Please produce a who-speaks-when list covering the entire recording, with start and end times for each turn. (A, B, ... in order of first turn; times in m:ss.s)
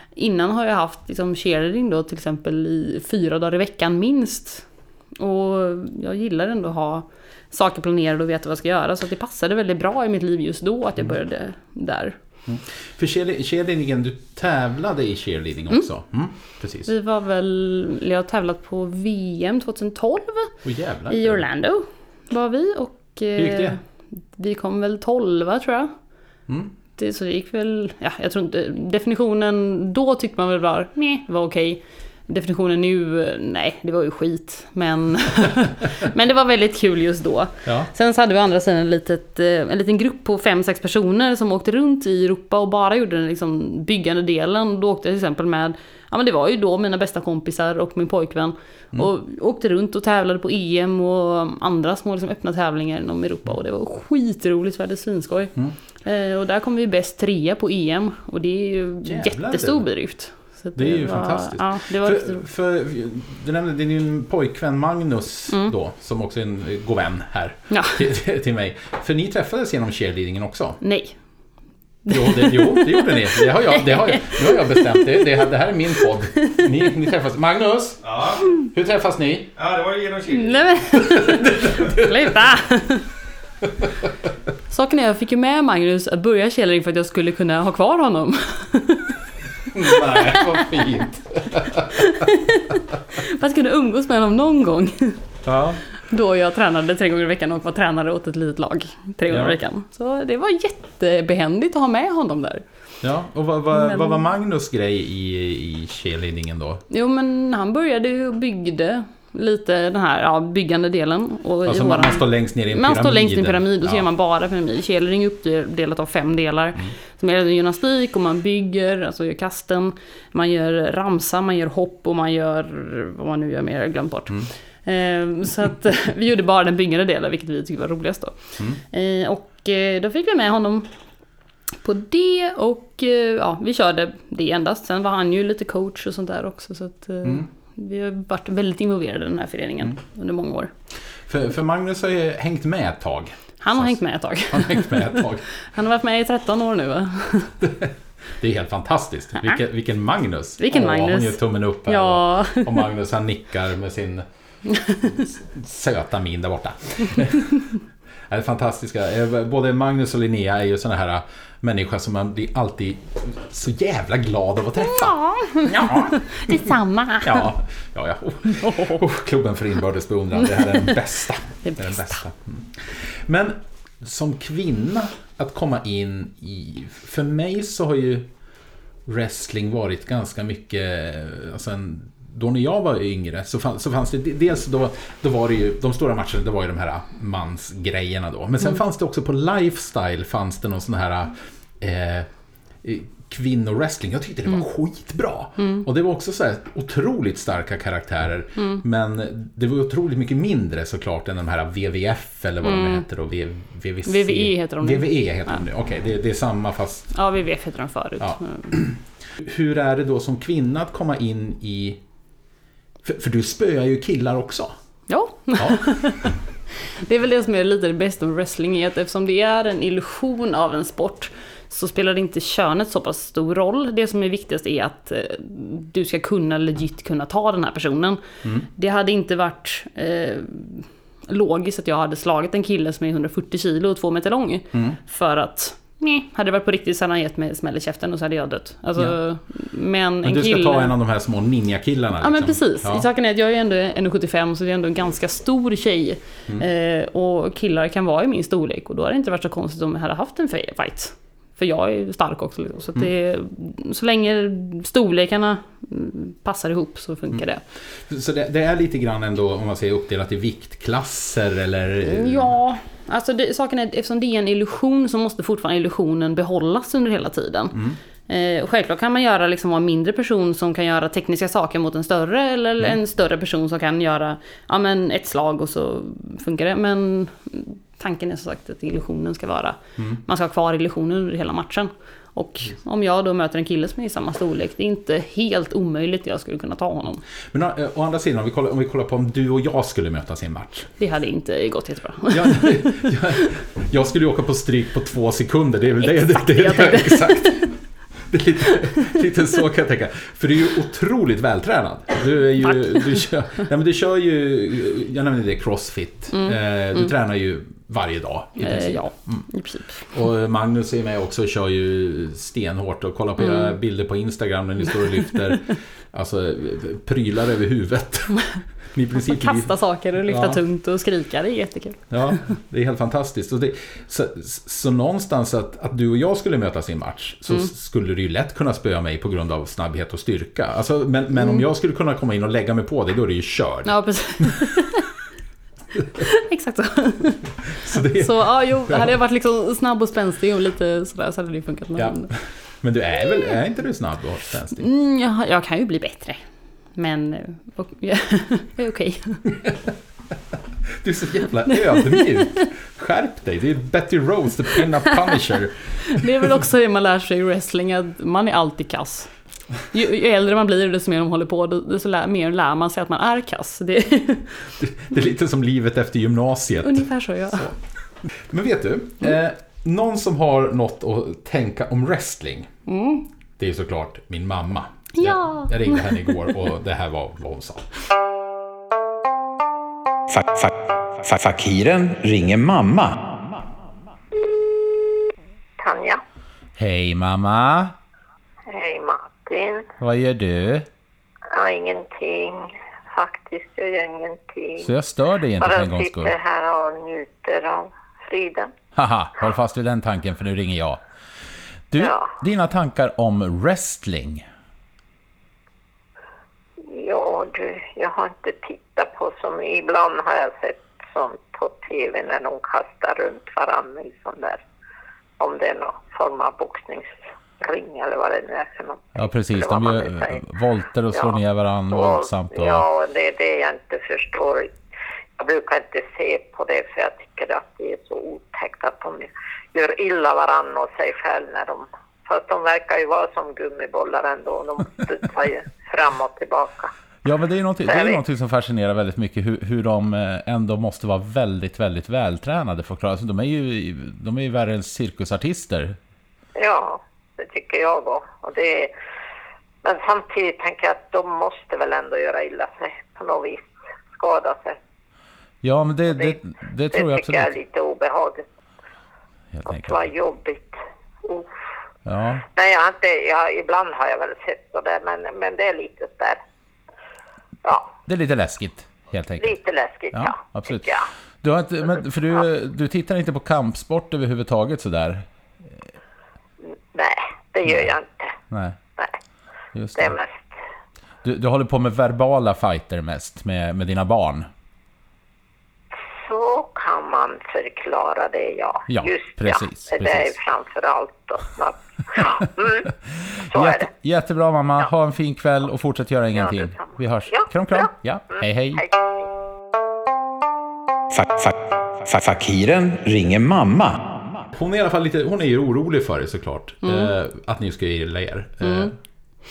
0:00.1-0:12.2 A
0:12.4-0:16.9 B
0:16.8-0:20.6 A
0:20.6-0:21.4 B
0:21.1-0:25.9 A
0:23.4-0:23.8 B
0:26.5-0:26.7 B
0:27.0-1:02.4 A
0:59.0-0:59.9 B
1:00.7-1:10.8 B
1:07.7-1:08.0 A
1:10.8-1:11.2 A
1:12.0-1:15.3 A
1:12.1-1:20.2 B
1:20.2-1:23.0 A
1:21.1-1:22.1 B
1:24.7-1:29.2 A
1:29.7-1:32.0 B
1:29.8-1:30.9 A
1:31.9-1:35.2 A
1:35.4-1:35.8 B
1:36.0-1:42.6 A
1:39.3-1:39.6 B
1:43.0-1:46.8 B
1:43.7-1:44.2 A
1:46.9-2:10.9 A
1:51.6-1:54.0 B
2:11.8-2:20.7 A
2:21.3-2:25.5 B
2:23.6-2:27.5 A
2:28.4-2:34.2 B
2:30.6-2:32.8 A
2:34.7-2:35.1 A
2:35.0-2:37.6 B
2:38.3-2:58.3 B
2:44.9-2:47.5 A
2:48.5-2:49.0 A
2:51.6-2:52.2 A
2:59.0-3:12.3 B
3:12.8-3:27.1 B
3:15.6-3:15.8 A
3:18.6-3:18.8 A
3:22.6-3:23.0 A
3:24.0-3:25.6 A
3:27.1-3:28.7 A
3:28.2-3:32.0 B
3:33.0-3:34.8 B
3:35.1-4:00.9 A
3:35.6-3:35.9 B
4:00.2-4:03.0 B
4:02.2-4:17.6 A
4:18.0-4:22.5 B
4:22.0-4:47.2 A
4:47.5-4:50.9 B
4:51.0-4:52.9 A
4:52.3-5:09.5 B
4:56.0-4:57.7 A
5:02.6-5:03.1 A
5:06.3-5:07.1 A
5:08.6-5:10.0 A
5:10.1-5:20.6 B
5:13.4-5:13.7 A
5:19.1-5:22.1 A
5:22.1-5:34.6 B
5:31.4-5:31.6 A
5:33.8-5:35.1 A
5:36.2-5:42.3 A
5:37.8-5:39.1 B
5:42.0-5:44.9 B
5:44.8-5:46.4 A
5:46.9-5:49.4 A
5:51.0-5:56.3 B
5:51.7-5:52.5 A
5:56.1-6:04.7 A
6:04.8-6:07.7 B
6:06.8-6:07.7 A
6:08.3-6:12.7 B
6:12.8-6:13.2 A
6:13.6-6:17.9 B
6:15.2-6:16.2 A
6:20.3-6:23.3 C
6:24.3-6:25.1 D
6:25.8-6:26.2 D
6:26.8-6:27.9 B
6:28.7-6:29.9 D
6:30.0-6:30.8 B
6:31.5-6:34.9 D
6:34.8-6:36.3 B
6:35.6-6:38.7 D
6:38.9-6:41.0 B
6:41.9-6:44.4 B
6:42.0-6:42.2 D
6:46.9-6:54.6 D
6:55.4-7:00.4 D
6:59.1-7:02.8 B
7:01.9-7:04.7 D
7:05.4-7:16.9 D
7:17.2-7:26.0 B
7:17.9-7:18.2 D
7:26.6-7:28.9 D
7:29.8-7:34.8 D
7:35.6-7:37.5 B
7:36.9-7:38.4 D
7:39.5-7:40.0 B
7:39.7-7:41.5 D
7:42.0-7:42.4 B
7:42.5-7:46.4 D
7:48.0-7:49.6 B
7:49.4-7:51.0 D
7:50.1-7:55.3 B
7:56.9-7:58.3 D
7:58.5-7:58.8 B
7:59.7-8:00.2 B
7:59.9-8:00.5 D
8:01.2-8:04.5 B
8:06.2-8:12.9 D
8:08.9-8:10.4 B
8:13.4-8:18.8 B
8:13.5-8:13.9 D
8:16.4-8:17.9 D
8:21.1-8:24.1 C
8:24.5-8:28.9 B
8:26.8-8:27.1 A
8:28.6-8:28.9 A